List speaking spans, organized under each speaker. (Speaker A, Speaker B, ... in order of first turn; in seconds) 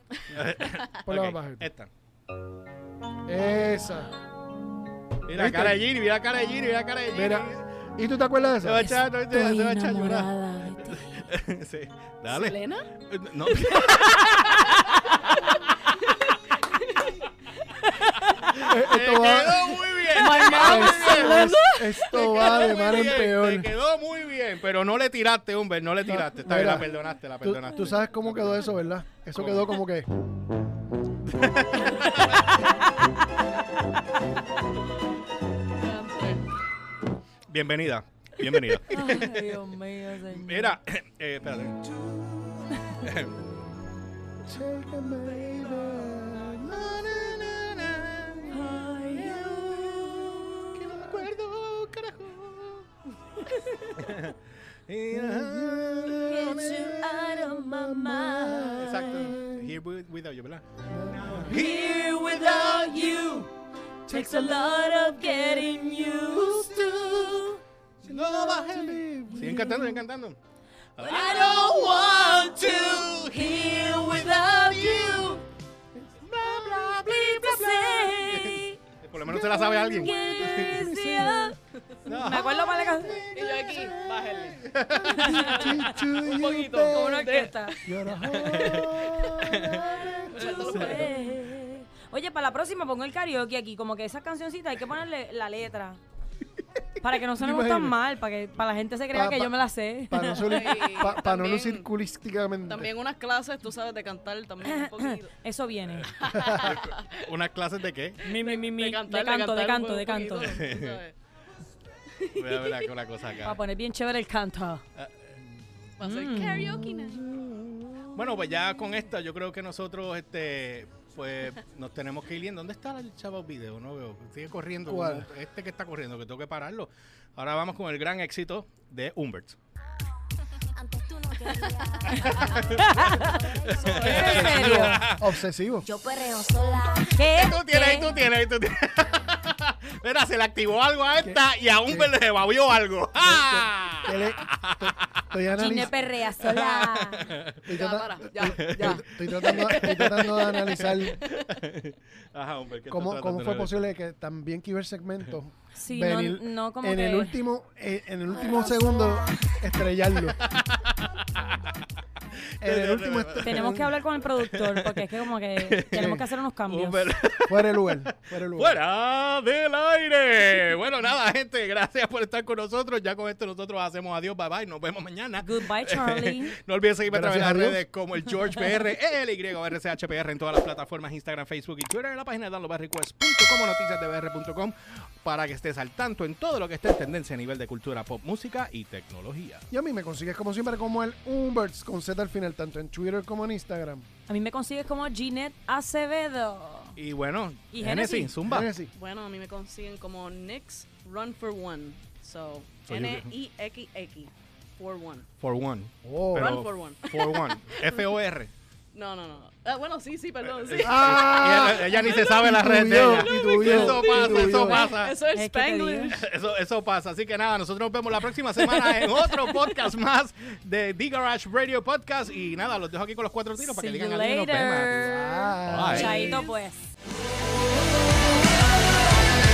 Speaker A: 0.2-1.9, 5.2-7.7, 8.6-15.9, 18.4-28.7, 29.3-29.8, 31.2-32.8, 37.5-39.5, 40.3-41.9, 42.9-43.5, 46.6-52.9, 53.9-57.0, 58.8-63.2, 66.4-67.4, 68.0-70.4, 71.0-75.4, 76.2-81.0, 82.0-85.7, 88.2-91.1, 106.5-108.2, 110.4-111.0, 112.3-113.6, 114.9-115.3, 118.1-129.6, 132.1-135.3, 137.3-145.2, 146.4-147.7, 148.5-153.9, 160.4-161.8, 162.5-163.8, 164.4-165.0, 165.6-189.6, 196.9-198.7, 202.9-203.3, 205.4-208.5, 210.4-215.2, 216.1-226.4
Speaker B: 1.0-1.7, 3.2-4.1, 5.3-5.8, 7.1-9.0, 18.6-23.7, 26.0-30.1, 44.4-47.5, 55.1-59.7, 60.9-61.6, 68.0-70.0, 79.2-81.5, 85.0-87.2, 87.8-91.0, 97.0-98.0, 99.1-102.9, 106.4-106.7, 116.8-118.9, 124.8-125.3, 134.4-135.8, 141.2-142.1, 143.2-146.1, 147.7-151.2, 152.9-160.4, 162.6-164.0, 165.9-166.2, 167.4-168.8, 177.1-177.8, 189.7-194.1, 198.4-198.9, 206.0-206.6, 210.8-214.8, 225.0-226.5
Speaker C: 8.8-11.3, 17.8-18.5, 20.1-22.3, 38.8-40.8, 42.7-43.0, 48.5-50.5, 56.2-59.2, 61.4-63.5, 64.1-67.6, 71.0-75.4, 76.6-78.8, 79.3-83.3, 85.0-85.8, 86.9-87.8, 89.6-96.0, 97.0-100.8, 104.6-106.1, 108.2-110.6, 113.4-114.8, 116.0-116.9, 132.8-133.3, 134.0-135.0, 137.1-138.2, 145.5-147.3, 155.8-157.3, 163.4-167.1, 175.4-176.5, 194.3-196.9, 197.7-198.3, 214.8-216.2, 223.6-226.9
Speaker D: 12.3-12.9, 15.2-17.2, 21.2-22.1, 35.7-36.4, 83.3-84.6, 85.5-87.9, 88.9-89.3, 90.3-91.3, 100.5-101.9, 102.7-105.3, 106.1-107.2, 108.2-111.1, 112.1-112.9, 116.0-117.3, 133.9-134.4, 147.7-151.5, 198.9-205.3, 206.4-208.1, 208.9-216.2, 218.8-219.5
Speaker E: 130.7-134.5, 135.8-137.3, 158.5-159.2